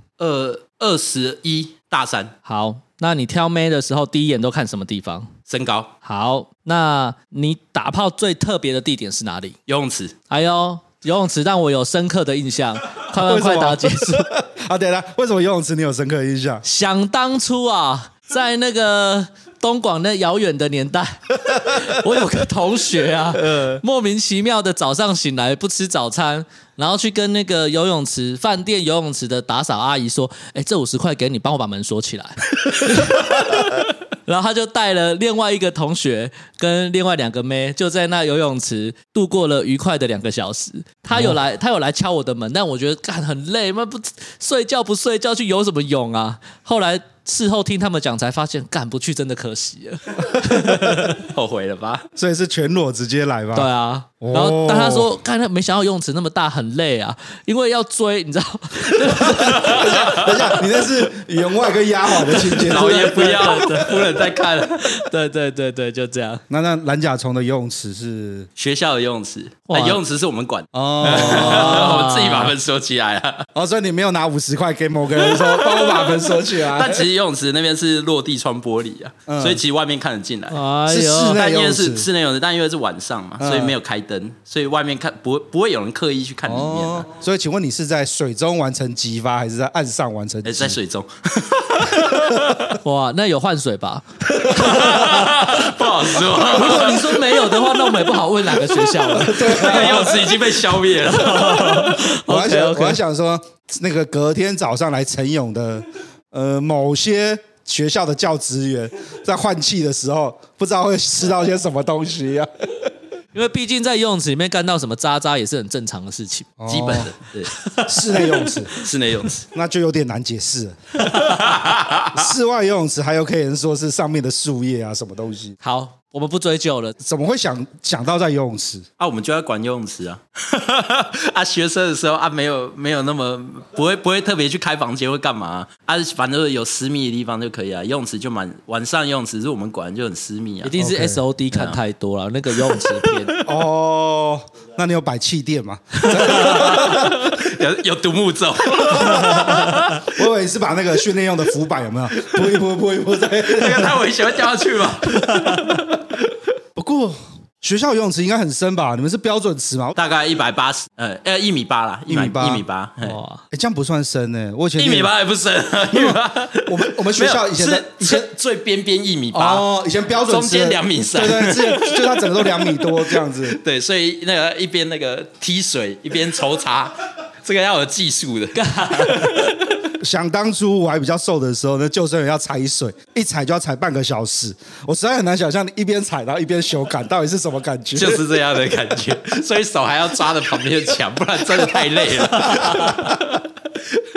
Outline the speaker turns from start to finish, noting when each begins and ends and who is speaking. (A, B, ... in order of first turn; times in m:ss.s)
0:00.2-0:02.3 A
0:02.4-0:05.3 B
0:05.5-0:05.9 A
0:06.0-0:09.6 B
0:09.7-0:10.2 A
0:10.3-0:14.3 B
0:13.2-0:16.6 C
0:16.6-0:51.2 B
0:21.5-0:22.0 C
0:23.4-0:23.8 C
0:50.4-0:50.7 C
0:51.1-0:52.1 A
0:52.2-0:53.7 C
0:53.6-1:00.7 B
0:54.2-0:55.1 C
0:59.1-1:03.1 C
0:59.4-1:00.3 A
1:02.2-1:06.4 B
1:02.6-1:05.0 A
1:06.5-1:08.5 C
1:08.6-1:13.5 A
1:09.7-1:10.0 B
1:10.7-1:11.9 C
1:11.0-1:12.5 B
1:13.6-1:17.0 C
1:15.4-1:20.6 A
1:19.3-1:19.6 C
1:20.5-1:21.4 B
1:20.9-1:22.1 C
1:21.3-1:27.1 A
1:23.4-1:23.8 C
1:26.5-1:30.8 C
1:30.4-1:32.8 A
1:32.0-1:32.7 C
1:32.8-1:40.4 B
1:34.3-1:35.0 C
1:34.6-1:37.2 A
1:36.6-1:36.8 C
1:39.0-1:40.3 C
1:39.2-1:41.6 A
1:41.0-1:43.0 B
1:41.6-1:52.5 C
1:53.3-1:56.5 B
1:56.6-1:57.1 C
1:56.7-1:57.5 A
1:57.5-1:58.5 B
1:57.8-1:58.7 C
1:58.7-1:59.4 A
1:59.5-2:01.5 C
2:01.1-2:01.4 B
2:01.2-2:02.3 A
2:02.1-2:05.6 C
2:05.6-2:07.0 B
2:07.0-2:08.9 C
2:09.0-2:20.7 A
2:20.6-2:23.4 B
2:20.8-2:21.2 C
2:21.5-2:21.8 A
2:22.6-2:23.4 A
2:23.4-2:27.3 C
2:26.2-2:27.1 B
2:26.2-2:30.1 A
2:28.9-2:34.0 C
2:28.9-2:29.8 B
2:33.5-2:35.9 A
2:35.2-2:35.8 B
2:36.8-2:40.0 C
2:40.0-2:43.2 A
2:42.1-2:42.6 C
2:43.0-2:43.4 B
2:43.5-2:45.1 C
2:44.8-2:49.7 A
2:45.9-2:48.3 C
2:49.3-2:53.6 C
2:50.3-2:59.5 A
2:58.6-2:59.5 B
3:00.0-3:08.2 C
3:08.0-3:13.2 A
3:12.4-3:13.1 B
3:12.5-3:13.2 C